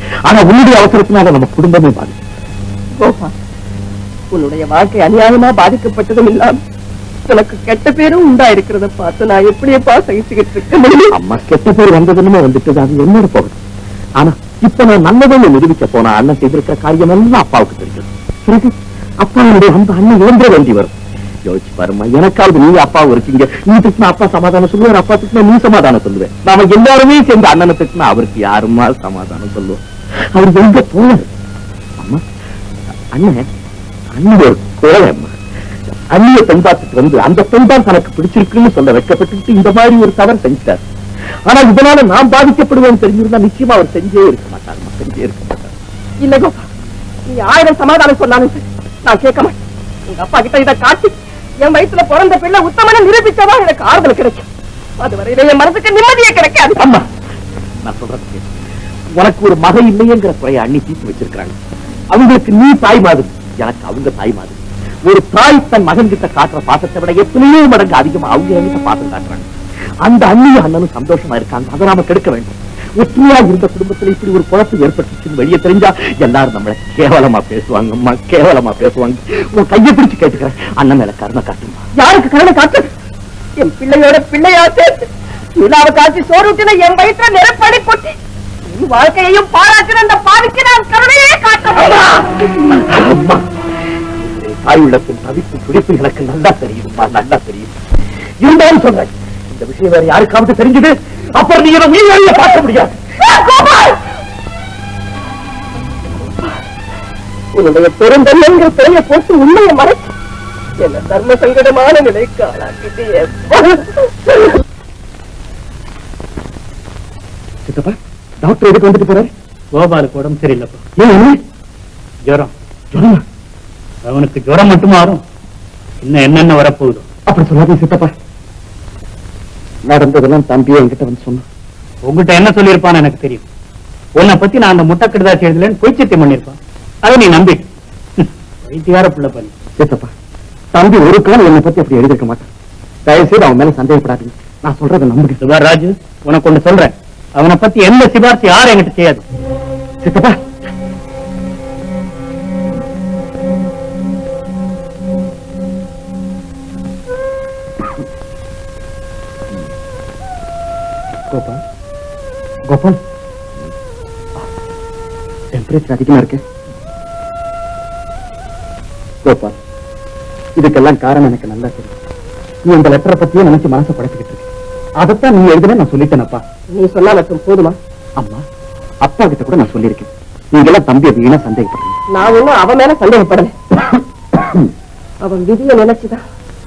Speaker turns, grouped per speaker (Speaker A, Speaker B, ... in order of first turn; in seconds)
Speaker A: 0.3-2.2, 11.1-13.6, 14.2-18.1, 19.2-20.9, 21.5-29.8, 30.3-31.3, 33.1-33.5, 34.1-35.3, 36.1-40.8, 41.5-45.7, 56.8-57.1, 57.8-58.4, 59.2-61.5, 62.1-69.5, 70.0-81.8, 91.8-92.1, 92.8-93.5, 94.1-97.7, 98.4-103.0
Speaker B: 3.0-3.3, 4.3-6.6, 7.3-11.2, 46.2-46.7, 47.3-49.6, 50.1-54.5, 55.0-56.9, 82.0-82.9, 83.6-88.2, 88.7-92.1, 103.3-104.0, 106.1-106.6, 107.5-110.1, 110.8-114.5, 176.7-177.8, 182.1-183.6, 185.2-186.2
Speaker C: 117.7-119.3, 121.0-121.4, 122.9-123.2, 127.3-128.1, 129.9-131.4, 139.8-140.1, 140.7-142.5, 143.1-145.4, 150.0-150.4, 161.3-161.6, 162.7-163.0, 165.5-166.4, 169.2-169.6, 170.6-171.9, 172.7-174.5, 175.0-176.4, 178.2-178.4, 179.0-181.9
Speaker D: 119.7-120.8, 122.3-122.5, 124.1-125.2, 126.0-127.0, 132.1-133.4, 134.2-137.6, 138.2-139.5, 145.4-149.2